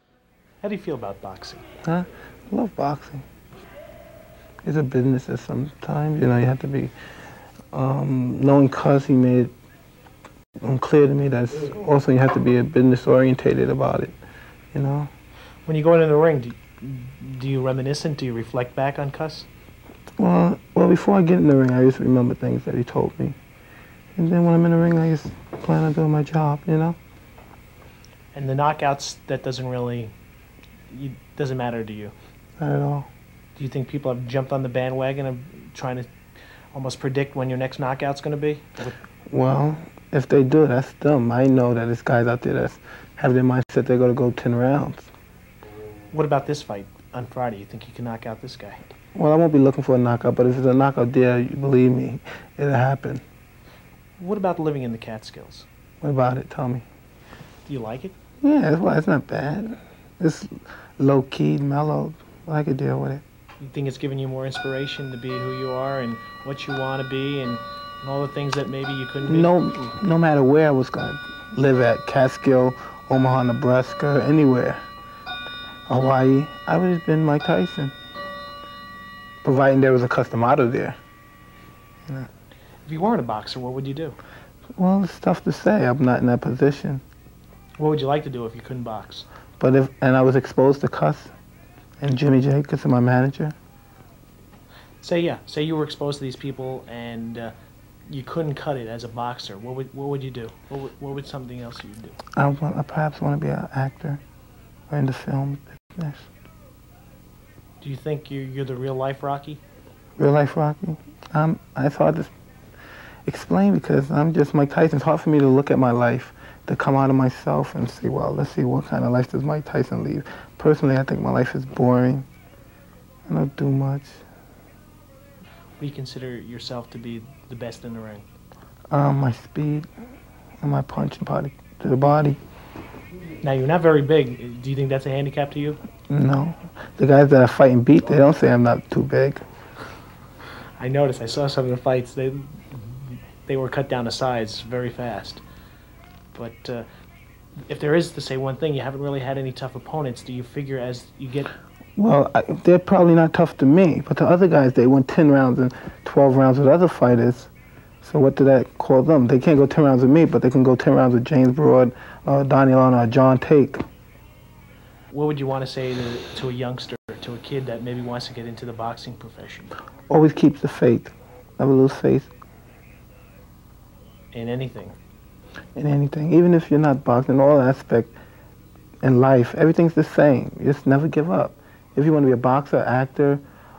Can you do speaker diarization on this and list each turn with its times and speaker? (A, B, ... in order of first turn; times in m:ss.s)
0:00.6-0:01.6 A
0:01.8-0:03.2 B
0:04.6-0:06.9 B
0:07.7-0:09.5 B
0:10.6-0:14.1 B
0:14.7-0:15.1 B
0:15.6-0:19.5 A
0:20.2-0:23.4 B
0:24.1-0:27.0 B
0:28.3-0:30.1 A
0:30.9-0:32.1 A
0:32.6-0:33.1 B
0:33.6-0:36.1 A
0:36.7-0:38.9 A
0:39.3-0:45.1 B
0:46.1-0:48.8 A
0:49.1-0:53.2 B
0:54.2-0:55.6 A
0:56.0-0:56.8 B
0:57.6-0:58.2 A
0:58.4-1:03.2 B
1:03.6-1:09.5 A
1:09.3-1:14.8 B
1:15.9-1:17.9 B
1:19.4-1:21.0 B
1:22.8-1:24.2 A
1:24.8-1:27.0 B
1:27.8-1:29.2 A
1:29.6-1:31.3 B
1:32.0-1:33.5 B
1:35.0-1:37.5 A
1:38.1-1:42.2 A
1:42.4-1:44.2 B
1:44.9-1:46.3 B
1:47.8-1:49.6 A
1:50.2-1:52.3 B
1:53.2-2:02.3 B
2:03.3-2:04.2 B
2:05.8-2:08.2 A
2:08.9-2:09.9 B
2:10.6-2:12.4 B
2:13.4-2:15.8 A
2:16.1-2:19.4 B
2:20.8-2:22.9 A
2:23.4-2:25.4 A
2:26.3-2:26.8 A
2:27.7-2:31.5 A
2:32.0-2:37.5 B
2:38.0-2:43.8 B
2:45.1-2:49.7 A
2:50.1-2:52.3 B
2:54.3-2:55.0 A
2:55.8-2:58.1 B
2:59.0-3:03.4 B